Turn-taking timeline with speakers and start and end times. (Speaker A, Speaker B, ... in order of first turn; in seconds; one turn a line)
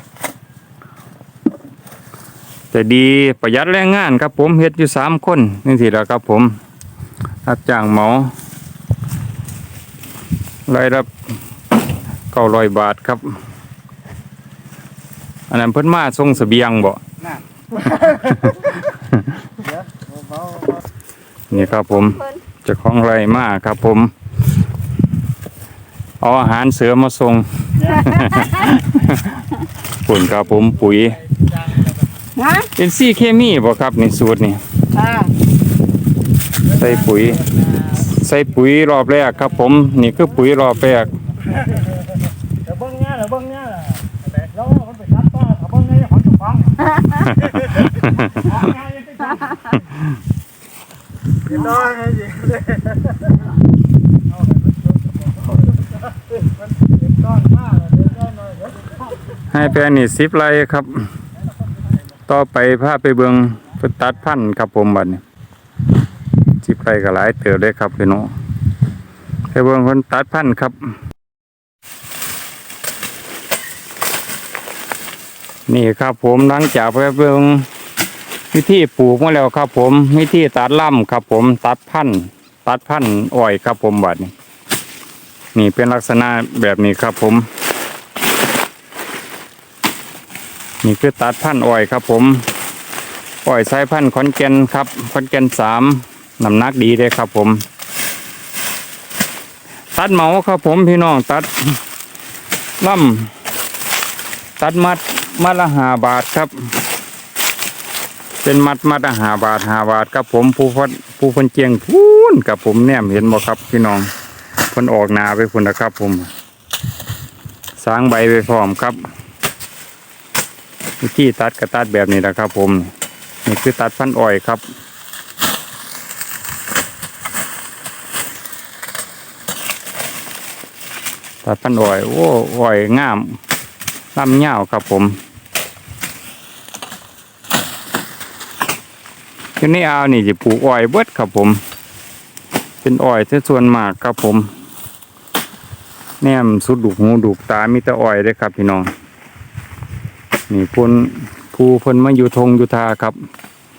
Speaker A: 2.7-6.6
Speaker A: 7.5-8.3
Speaker A: 10.7-11.1
Speaker A: 12.3-13.4
Speaker A: 15.5-17.0
Speaker A: 18.1-19.2
Speaker B: 19.7-20.8
Speaker A: 21.5-24.1
Speaker A: 26.2-31.2
Speaker A: 32.5-34.6
Speaker A: 36.7-41.1
Speaker B: 42.8-43.9
Speaker B: 44.8-46.8
Speaker A: 47.8-48.3
Speaker B: 51.6-52.8
Speaker B: 57.4-58.6
Speaker A: 59.5-61.1
Speaker A: 62.3-65.2
Speaker A: 66.6-68.3
Speaker A: 69.5-70.9
Speaker A: 75.7-77.7
Speaker A: 78.5-84.3
Speaker A: 85.5-87.5
Speaker A: 90.8-92.5
Speaker A: 93.5-97.7
Speaker A: 99.9-101.8
Speaker A: 102.8-103.3
Speaker A: 104.6-106.7
Speaker A: 108.4-114.1
Speaker A: 114.7-116.3
Speaker A: 117.8-119.0
Speaker A: 121.0-122.9
Speaker A: 123.5-124.7
Speaker A: 131.4-133.4
Speaker A: 134.2-135.2
Speaker A: 139.6-141.6
Speaker A: 142.8-144.5
Speaker A: 146.2-148.9
Speaker A: 150.5-153.2